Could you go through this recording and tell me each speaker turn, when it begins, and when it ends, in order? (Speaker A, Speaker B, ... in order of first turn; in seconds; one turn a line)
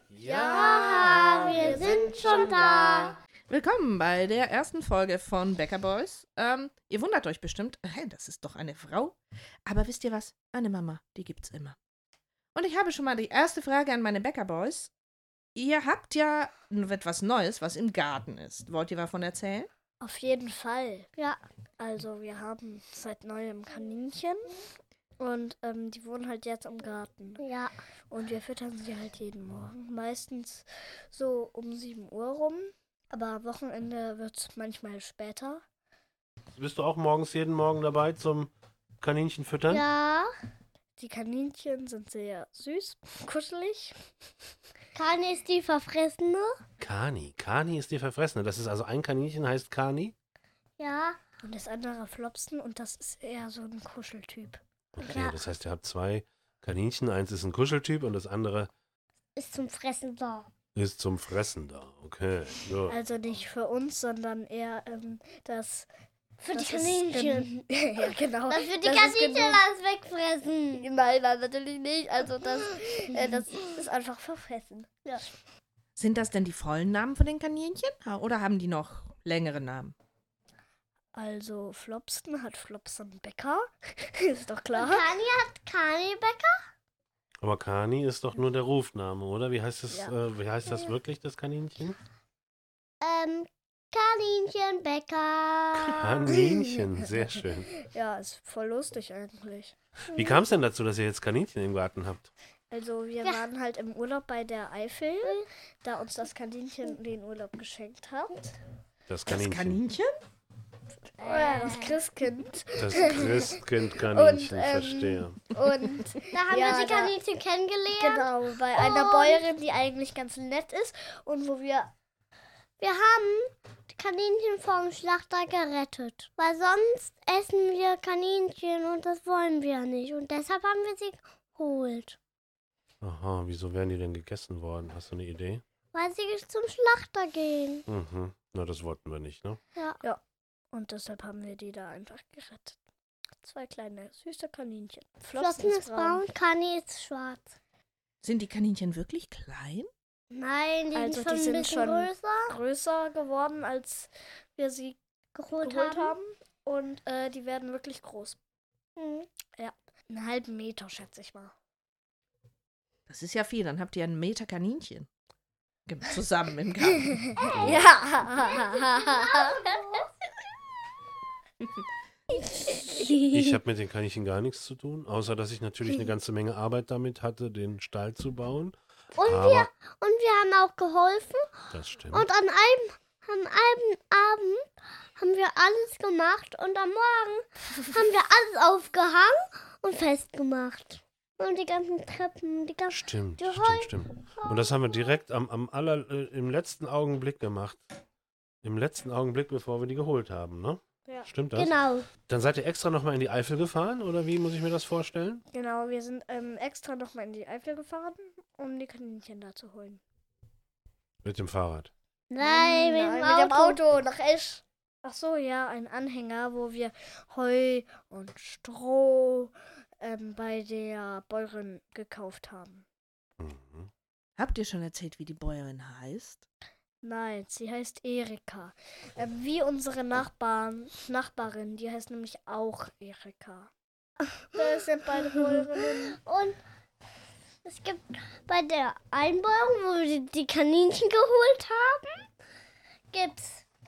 Speaker A: 0.1-2.5
Speaker B: 0.2-2.9
Speaker C: 0.4-3.2
Speaker D: 3.5-11.8
Speaker D: 12.6-14.9
Speaker D: 15.6-19.7
Speaker B: 20.0-21.1
Speaker B: 21.8-24.5
Speaker B: 25.2-27.4
Speaker C: 27.4-27.7
Speaker B: 28.1-35.6
Speaker A: 36.6-39.9
Speaker C: 39.7-40.3
Speaker B: 41.0-43.9
Speaker C: 45.0-46.6
Speaker A: 46.8-50.1
Speaker C: 50.8-51.2
Speaker B: 51.4-54.6
Speaker A: 55.0-58.7
Speaker C: 55.0-55.4
Speaker C: 59.4-60.5
Speaker A: 60.8-63.0
Speaker B: 62.9-65.9
Speaker C: 66.4-67.5
Speaker B: 66.5-69.7
Speaker C: 68.5-70.9
Speaker B: 70.8-74.9
Speaker C: 73.2-73.4
Speaker D: 76.0-80.0
Speaker B: 81.2-85.1
Speaker C: 84.7-86.6
Speaker A: 87.4-92.0
Speaker B: 89.9-90.2
Speaker C: 93.0-96.4
Speaker A: 95.9-97.7
Speaker B: 97.9-99.8
Speaker A: 100.1-102.3
Speaker B: 102.7-108.5
Speaker A: 109.1-109.8
Speaker D: 109.3-110.2
Speaker C: 111.2-112.0
Speaker B: 111.2-117.2
Speaker A: 112.8-115.4
Speaker C: 116.3-119.5
Speaker B: 117.9-121.9
Speaker C: 122.8-132.2
Speaker A: 133.0-135.6
Speaker C: 135.9-137.9
Speaker A: 137.9-139.6
Speaker B: 140.7-142.8
Speaker B: 143.4-146.2
Speaker C: 145.4-147.5
Speaker D: 148.2-149.9
Speaker C: 150.3-152.5
Speaker B: 150.9-155.0
Speaker C: 155.3-156.2
Speaker B: 155.6-158.4
Speaker C: 159.0-159.3
Speaker B: 159.6-161.5
Speaker D: 163.1-165.1
Speaker D: 165.9-167.2
Speaker B: 167.1-169.7
Speaker C: 167.4-167.8
Speaker A: 167.5-167.8
Speaker C: 168.4-170.1
Speaker C: 172.4-173.6
Speaker A: 173.3-179.7
Speaker C: 179.2-181.5
Speaker A: 181.7-182.3
Speaker C: 182.1-184.7
Speaker C: 185.2-195.1
Speaker A: 192.9-197.9
Speaker A: 198.6-201.8
Speaker C: 201.6-202.1
Speaker A: 202.3-205.4
Speaker B: 205.5-210.0
Speaker A: 211.2-211.9
Speaker C: 212.3-213.8
Speaker B: 212.4-222.8
Speaker A: 223.4-223.9
Speaker D: 224.4-226.5
Speaker B: 227.0-233.7
Speaker B: 234.5-236.2
Speaker C: 236.1-236.6
Speaker C: 237.6-242.2
Speaker C: 243.1-243.6